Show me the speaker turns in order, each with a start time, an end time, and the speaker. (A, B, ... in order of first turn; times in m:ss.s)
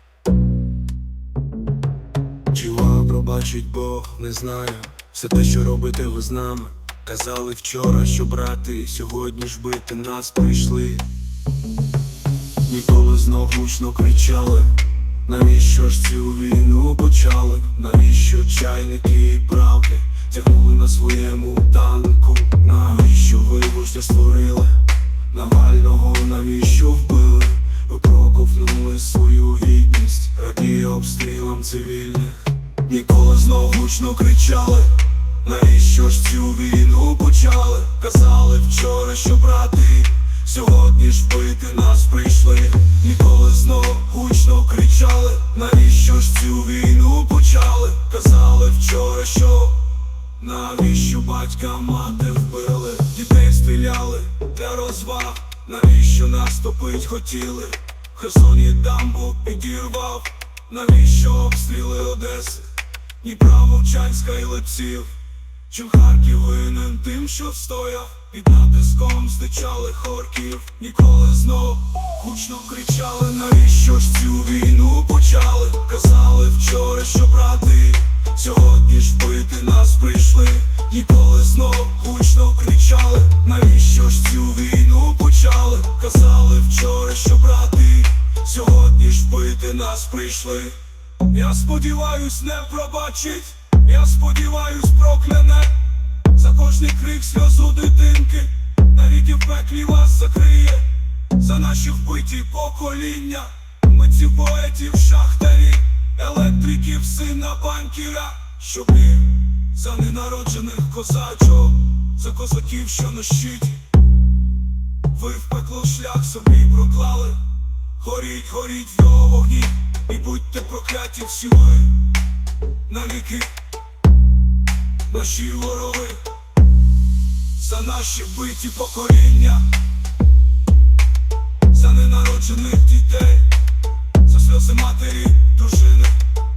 0:02.5-0:11.1 A
0:12.6-1:05.1 A
1:05.7-1:53.9 A
1:55.1-2:02.1 A
2:02.8-2:03.5 A
2:05.1-2:06.3 A
2:07.5-2:09.7 A
2:11.7-2:13.5 A
2:14.2-2:16.2 A